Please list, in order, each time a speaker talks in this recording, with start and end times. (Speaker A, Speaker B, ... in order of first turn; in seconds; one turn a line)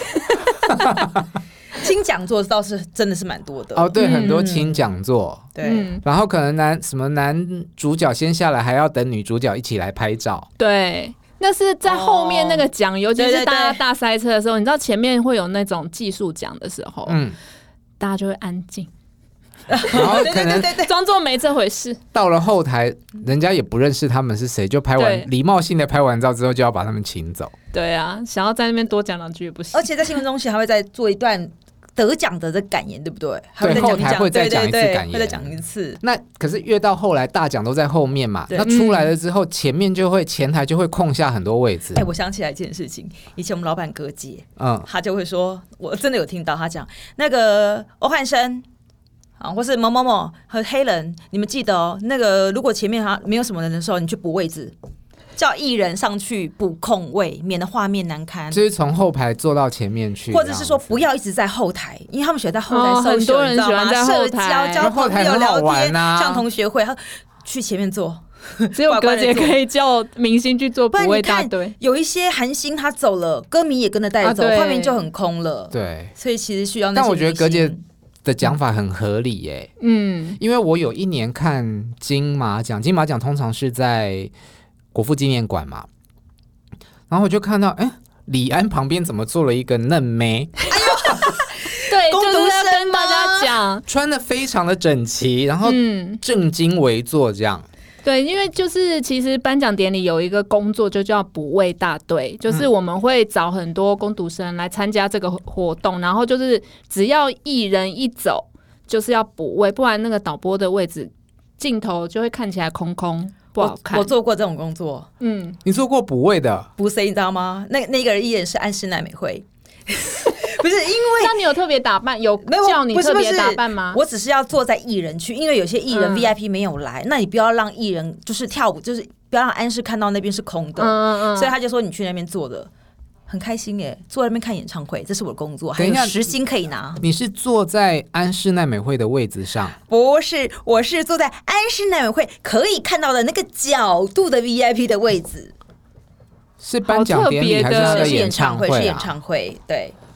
Speaker A: 1.8-4.9
Speaker B: 3.8-10.5
Speaker C: 4.0-4.5
Speaker A: 5.5-6.0
Speaker C: 5.6-6.0
Speaker C: 10.6-17.2
Speaker A: 11.8-13.8
Speaker B: 17.1-17.4
Speaker C: 18.0-18.9
Speaker A: 19.7-20.9
Speaker B: 19.9-20.7
Speaker C: 20.0-22.0
Speaker B: 22.1-27.5
Speaker C: 25.0-25.3
Speaker C: 27.7-30.1
Speaker A: 29.7-36.0
Speaker B: 33.6-42.0
Speaker A: 38.5-38.7
Speaker C: 38.6-39.1
Speaker A: 41.9-48.6
Speaker B: 44.6-44.9
Speaker A: 49.4-54.7
Speaker A: 55.4-58.6
Speaker B: 58.5-61.0
Speaker A: 60.3-69.6
Speaker C: 62.7-64.9
Speaker B: 64.8-66.5
Speaker C: 68.7-71.7
Speaker A: 70.9-77.8
Speaker C: 74.2-75.0
Speaker B: 75.7-76.1
Speaker B: 76.9-79.7
Speaker C: 79.8-80.4
Speaker B: 80.4-84.3
Speaker B: 84.9-85.9
Speaker B: 87.1-90.9
Speaker A: 90.7-93.6
Speaker C: 91.8-93.8
Speaker B: 93.9-97.7
Speaker C: 95.6-96.2
Speaker C: 98.0-114.1
Speaker A: 113.6-115.1
Speaker C: 115.2-115.6
Speaker B: 115.6-116.7
Speaker A: 116.8-121.4
Speaker C: 121.2-124.0
Speaker A: 122.4-132.7
Speaker C: 125.9-126.3
Speaker C: 130.8-131.5
Speaker A: 133.3-137.0
Speaker B: 135.8-136.3
Speaker B: 137.0-139.8
Speaker A: 139.9-145.5
Speaker B: 146.6-149.1
Speaker C: 146.8-148.2
Speaker A: 147.7-149.9